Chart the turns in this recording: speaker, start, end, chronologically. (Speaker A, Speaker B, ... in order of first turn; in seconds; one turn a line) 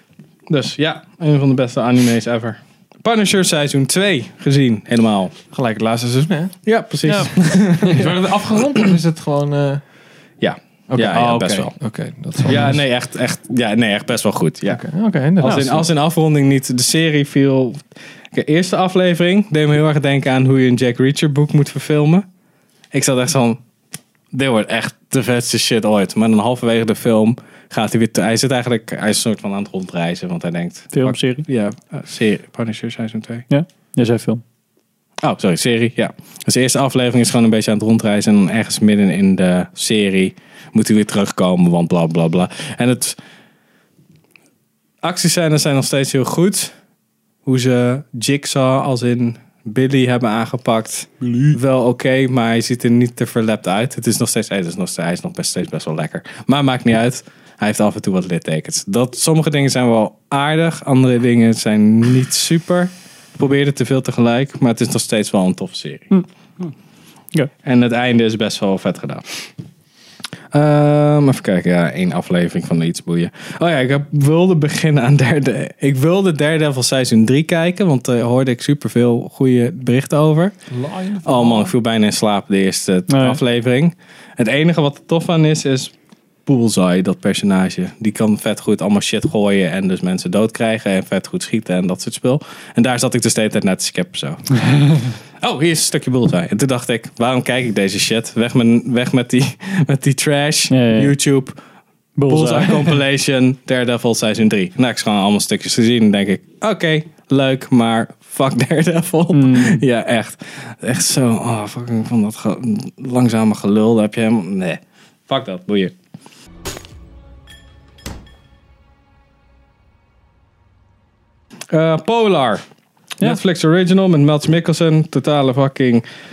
Speaker A: 0.5-5.3
Speaker B: 5.5-9.8
Speaker A: 6.7-8.2
Speaker A: 10.4-11.7
Speaker B: 10.9-12.8
Speaker A: 12.4-14.8
Speaker B: 14.7-15.9
Speaker A: 15.4-22.3
Speaker A: 22.9-23.6
Speaker A: 24.3-33.5
Speaker C: 30.9-31.5
Speaker C: 33.5-34.4
Speaker A: 35.2-43.2
Speaker A: 45.0-46.7
Speaker A: 47.5-66.2
Speaker C: 66.1-66.7
Speaker A: 67.6-69.2
Speaker A: 70.5-80.5
Speaker B: 80.7-81.7
Speaker A: 81.2-85.9
Speaker C: 83.1-83.4
Speaker A: 86.5-101.6
Speaker C: 100.7-101.1
Speaker C: 102.2-103.0
Speaker A: 102.3-115.9
Speaker C: 109.3-109.8
Speaker A: 121.7-122.6
Speaker A: 123.2-126.0